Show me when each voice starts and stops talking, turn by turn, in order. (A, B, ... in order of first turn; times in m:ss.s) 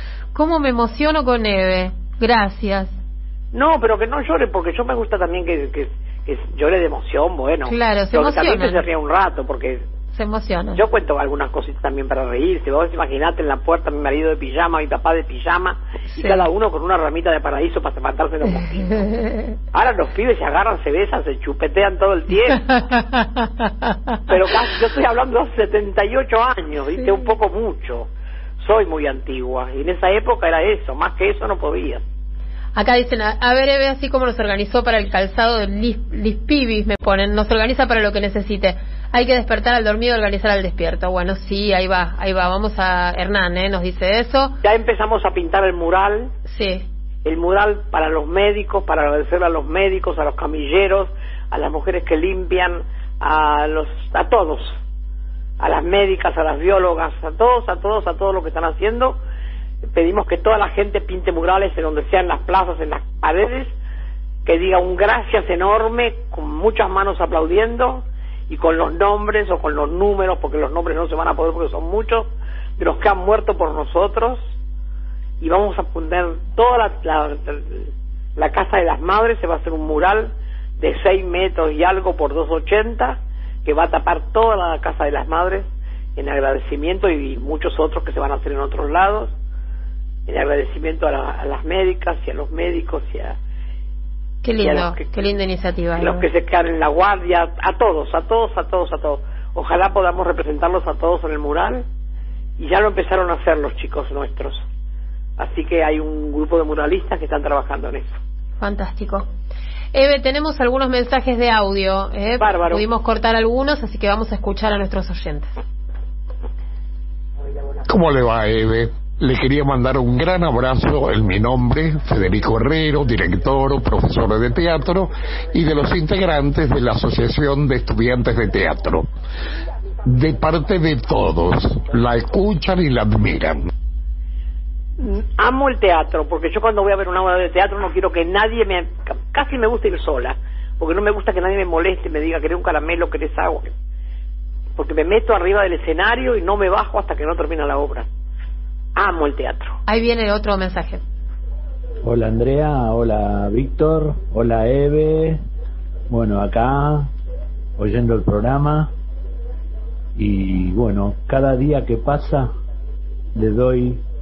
0:00.3-0:02.9 A
0:03.5-0:09.8 B
0:07.7-0:08.8 A
0:10.1-0:10.8 A
0:10.7-0:19.1 B
0:16.1-0:16.5 A
0:18.5-0:19.6 A
0:19.7-0:22.7 B
0:22.5-0:24.2 A
0:24.3-0:28.1 B
0:26.9-0:27.3 A
0:28.6-0:32.0 B
0:32.8-0:44.5 A
0:44.6-0:46.3 B
0:46.5-0:46.8 A
0:47.2-0:54.8 B
0:55.6-0:59.2 B
0:59.9-1:03.7 B
1:04.4-1:12.3 B
1:12.8-1:14.4 B
1:15.4-1:29.3 B
1:30.3-1:33.4 B
1:34.4-1:36.3 A
1:34.6-1:35.0 B
1:36.0-1:41.8 B
1:42.6-1:44.6 B
1:45.4-1:48.2 B
1:48.6-1:49.3 A
1:49.9-1:55.5 A
1:52.4-1:52.8 B
1:57.8-2:09.1 C
2:10.1-2:13.7 C
2:15.0-2:23.7 B
2:24.8-2:28.1 B
2:29.0-2:29.8 B
2:29.9-2:31.0 A
2:32.0-2:35.4 D
2:36.1-2:37.1 D
2:37.8-2:38.9 D
2:40.1-2:42.5 D
2:43.3-2:44.0 D